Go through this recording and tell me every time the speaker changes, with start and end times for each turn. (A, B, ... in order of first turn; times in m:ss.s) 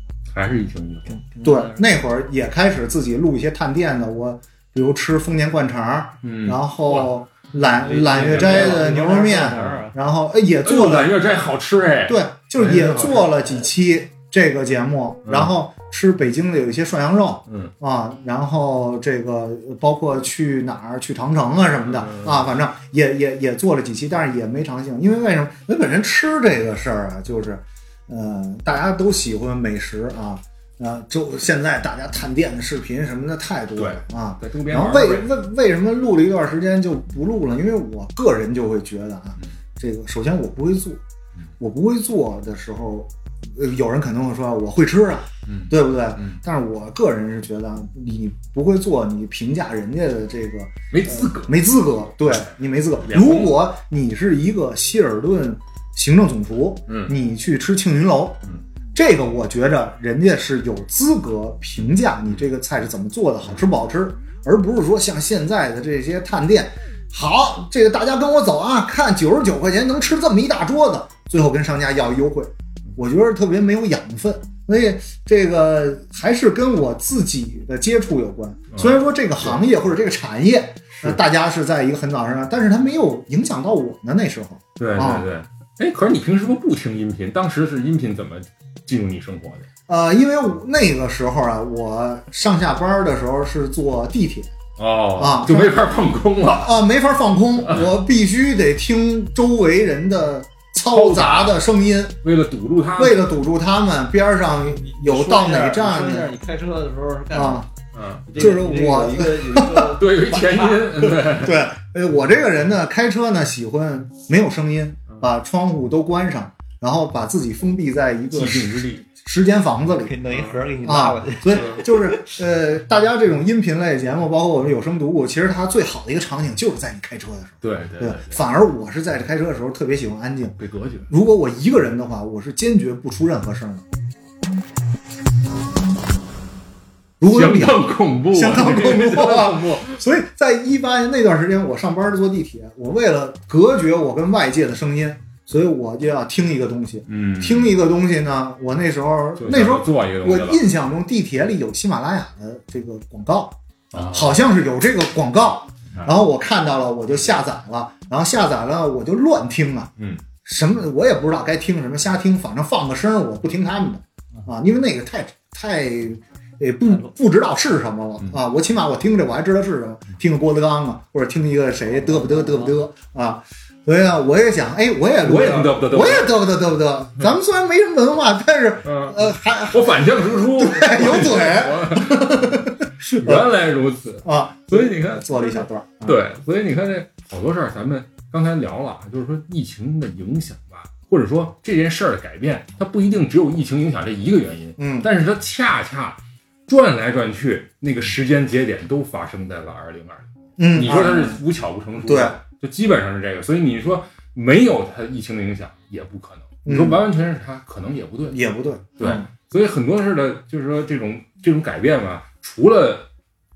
0:00.3-0:01.2 A
0:01.1-0:02.0 B
0:01.4-0:11.2 C
0:06.2-0:07.1 A
0:07.8-0:10.0 B
0:08.1-0:08.9 A
0:10.6-0:13.4 A
0:12.1-0:41.0 C
0:15.2-0:15.5 A
0:17.5-0:17.7 A
0:21.9-0:22.5 A
0:33.8-0:35.3 A
0:41.6-1:25.3 C
0:45.5-0:46.4 A
0:50.9-0:51.6 A
0:52.3-0:52.5 A
0:53.0-0:53.6 A
0:56.9-0:57.2 A
1:18.7-1:19.6 A
1:20.9-1:21.2 A
1:24.8-1:29.7 A
1:29.9-1:34.5 C
1:34.8-1:36.8 A
1:35.2-1:36.0 C
1:36.5-1:42.2 C
1:37.6-1:37.9 A
1:40.9-1:41.6 A
1:42.2-1:43.2 A
1:43.0-1:46.3 C
1:44.7-1:47.7 B
1:47.3-1:47.7 C
1:47.9-1:48.3 A
1:48.3-1:51.2 B
1:48.3-1:50.0 C
1:50.0-1:51.6 A
1:51.3-2:00.2 C
1:58.3-1:59.1 A
2:00.0-2:02.3 B
2:00.8-2:13.8 C
2:01.5-2:01.8 A
2:07.6-2:08.4 A
2:10.6-2:11.1 A
2:17.2-2:39.9 C
2:17.3-2:20.0 A
2:27.1-2:27.7 A
2:29.4-2:30.6 A
2:33.9-2:34.4 A
2:40.4-3:03.5 C
2:51.9-2:52.8 B
2:55.2-2:56.4 A
2:58.8-3:28.4 A
3:04.2-3:06.2 C
3:14.8-3:15.1 C
3:20.6-3:21.4 C
3:22.0-3:22.4 C
3:26.6-3:27.0 C
3:28.3-3:29.3 C
3:29.0-3:33.1 A